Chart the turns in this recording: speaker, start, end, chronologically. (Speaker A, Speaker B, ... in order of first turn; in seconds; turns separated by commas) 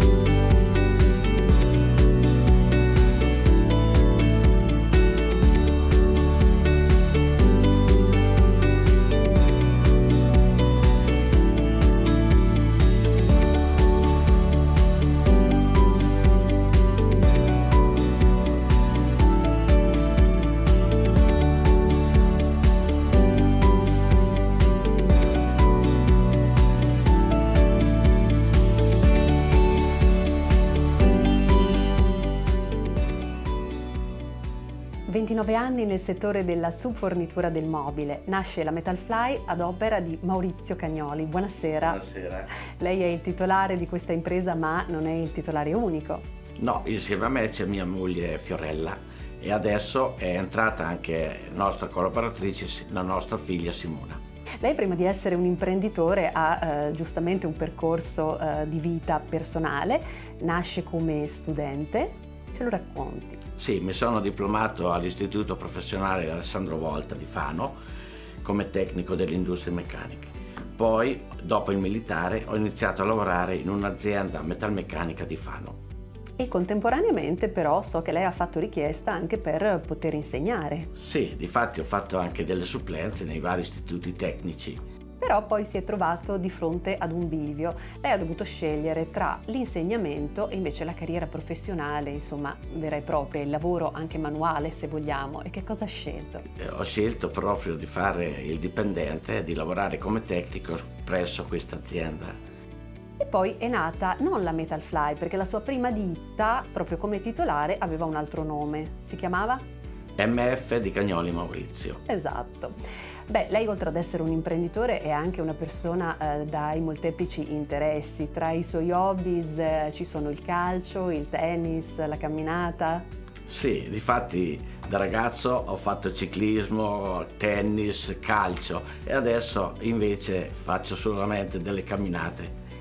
Speaker A: 35.1-42.0, Speaker B: 41.8-42.5, Speaker A: 42.8-46.2, Speaker B: 46.6-54.2, Speaker A: 54.6-63.4, Speaker B: 63.6-67.8, Speaker B: 68.4-75.8, Speaker A: 76.4-80.9, Speaker B: 81.0-84.8, Speaker A: 85.2-96.4, Speaker B: 96.6-102.4, Speaker A: 103.2-109.6, Speaker B: 110.2-112.0, Speaker A: 112.1-112.8, Speaker A: 113.3-123.1, Speaker B: 123.5-132.5